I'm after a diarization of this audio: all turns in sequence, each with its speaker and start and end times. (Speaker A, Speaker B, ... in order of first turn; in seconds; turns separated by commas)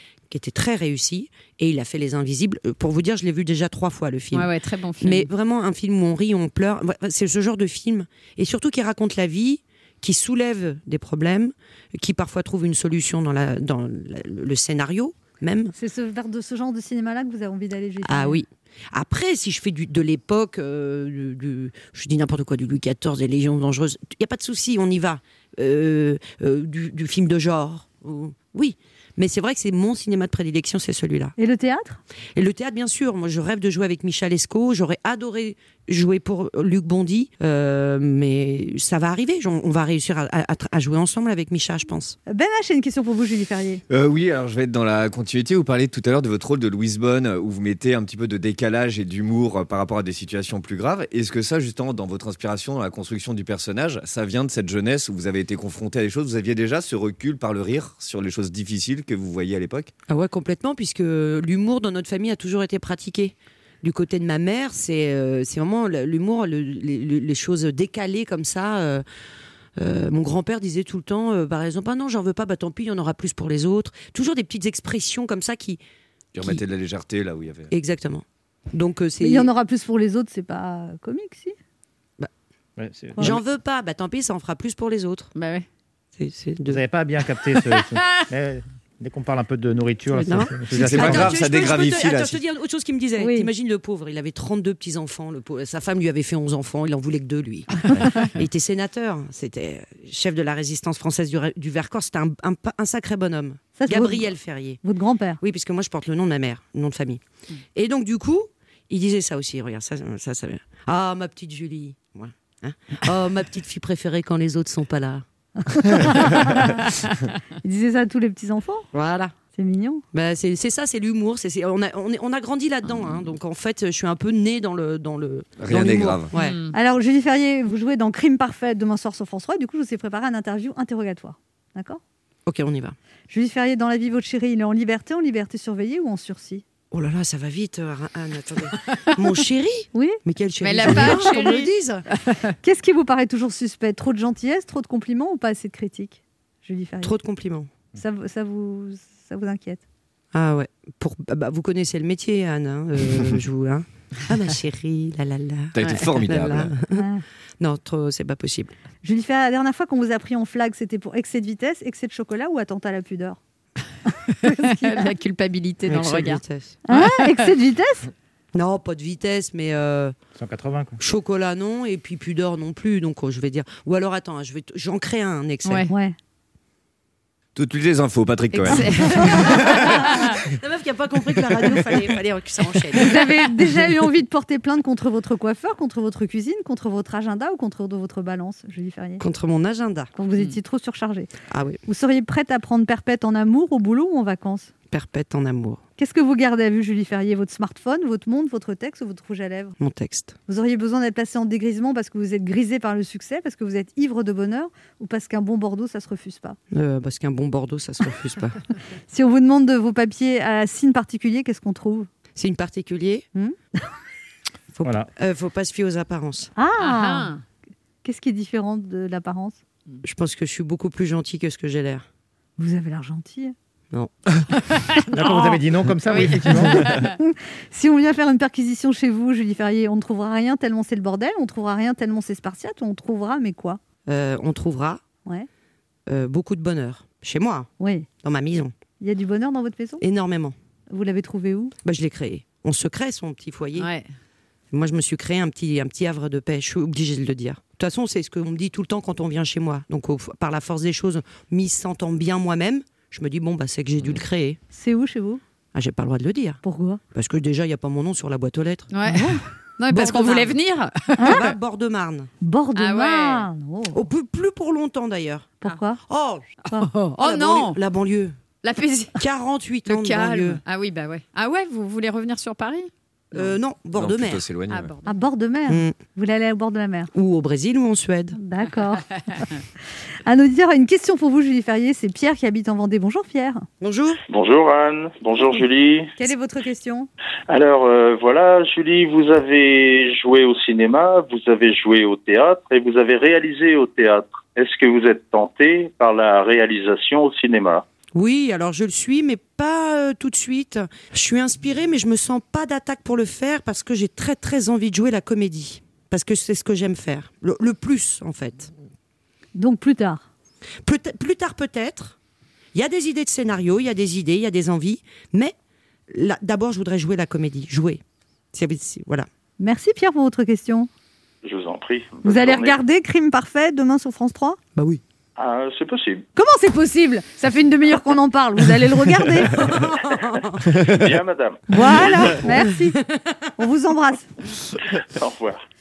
Speaker A: 0.3-15.7, Speaker B: 4.3-5.3, Speaker C: 15.8-18.4, Speaker A: 18.0-31.4, Speaker C: 31.4-32.0, Speaker A: 32.4-42.2, Speaker C: 42.3-43.8, Speaker D: 43.9-59.9, Speaker A: 60.1-69.0, Speaker A: 69.8-75.8, Speaker D: 76.4-77.7, Speaker A: 76.4-76.6, Speaker A: 77.7-79.5, Speaker C: 79.2-81.5, Speaker E: 82.8-83.3, Speaker A: 83.2-85.3, Speaker B: 85.3-85.7, Speaker A: 86.2-86.8, Speaker E: 86.7-91.4, Speaker B: 87.5-88.2, Speaker A: 90.1-104.8, Speaker D: 90.7-92.4, Speaker C: 93.2-93.5, Speaker C: 103.8-104.3, Speaker C: 104.8-105.4, Speaker A: 105.4-107.2, Speaker A: 107.8-115.2, Speaker C: 115.6-116.8, Speaker C: 117.6-118.9, Speaker A: 118.9-119.3, Speaker C: 119.5-120.0, Speaker A: 120.1-126.6, Speaker D: 125.6-126.3, Speaker B: 126.3-126.8, Speaker C: 126.7-132.0, Speaker A: 132.5-132.9, Speaker C: 133.3-136.6, Speaker A: 136.9-142.0, Speaker C: 139.9-140.2, Speaker B: 140.6-142.5, Speaker C: 140.8-141.6, Speaker C: 142.6-147.1, Speaker A: 147.0-147.7, Speaker C: 147.9-149.8, Speaker A: 150.3-157.1, Speaker D: 155.7-156.7, Speaker C: 156.9-157.2, Speaker A: 157.6-158.7, Speaker C: 159.0-163.4, Speaker B: 164.3-167.5, Speaker C: 164.4-165.1, Speaker A: 165.9-166.8, Speaker C: 166.9-168.1, Speaker A: 168.5-170.2, Speaker E: 170.3-171.0, Speaker A: 171.0-175.9, Speaker B: 175.6-175.9, Speaker C: 175.9-176.2, Speaker D: 177.6-180.1, Speaker B: 178.5-180.4, Speaker A: 179.8-183.3, Speaker C: 183.0-189.2, Speaker A: 189.2-190.1, Speaker C: 190.2-191.3, Speaker A: 191.5-191.8, Speaker C: 191.9-194.7, Speaker A: 194.9-195.8, Speaker C: 196.0-199.8, Speaker A: 199.8-200.3, Speaker C: 200.5-206.6, Speaker A: 206.7-208.6, Speaker C: 209.1-212.1, Speaker A: 212.3-213.3, Speaker A: 214.7-216.5, Speaker E: 214.8-215.1, Speaker C: 216.6-217.3, Speaker B: 216.8-217.4, Speaker C: 218.0-219.6, Speaker A: 220.0-222.1, Speaker C: 222.6-223.6, Speaker B: 224.6-227.2, Speaker E: 225.1-226.9, Speaker C: 225.3-225.5, Speaker C: 226.3-233.8, Speaker A: 234.1-235.0, Speaker A: 236.1-237.7, Speaker C: 237.8-238.1, Speaker A: 238.2-238.8, Speaker C: 239.0-240.0, Speaker A: 240.0-240.6, Speaker C: 240.9-241.7, Speaker A: 241.8-243.9, Speaker B: 243.8-244.1, Speaker A: 244.7-254.6, Speaker C: 254.7-255.4, Speaker A: 255.7-256.6, Speaker C: 256.6-257.0, Speaker A: 257.1-258.9, Speaker B: 258.9-261.6, Speaker C: 259.1-259.4, Speaker A: 259.9-260.6, Speaker C: 261.2-261.4, Speaker A: 261.2-262.3, Speaker C: 262.4-264.0, Speaker B: 262.8-263.5, Speaker A: 263.9-266.5, Speaker C: 265.6-266.0, Speaker B: 266.6-267.8, Speaker A: 267.2-268.4, Speaker B: 268.6-269.2, Speaker A: 269.1-270.6, Speaker B: 269.9-273.6, Speaker A: 273.3-274.5, Speaker D: 273.4-274.9, Speaker B: 274.7-275.2, Speaker C: 275.1-277.1, Speaker A: 275.7-275.9, Speaker A: 277.1-278.4, Speaker C: 278.3-279.5, Speaker B: 279.0-279.6, Speaker C: 280.2-283.7, Speaker A: 283.8-284.2, Speaker F: 284.3-286.1, Speaker C: 286.2-287.1, Speaker F: 287.5-297.9, Speaker A: 298.1-308.7, Speaker C: 309.6-310.3, Speaker A: 310.8-312.2, Speaker A: 312.7-315.6, Speaker A: 316.1-318.0, Speaker A: 318.5-319.3, Speaker C: 319.6-320.9, Speaker F: 321.4-322.8, Speaker C: 322.2-324.6, Speaker A: 324.8-325.0, Speaker F: 325.4-326.2, Speaker C: 326.4-329.6, Speaker F: 329.6-330.2, Speaker A: 329.6-330.7, Speaker F: 330.8-332.5, Speaker C: 331.7-333.0, Speaker A: 332.5-333.0, Speaker C: 333.6-334.3, Speaker F: 335.2-335.6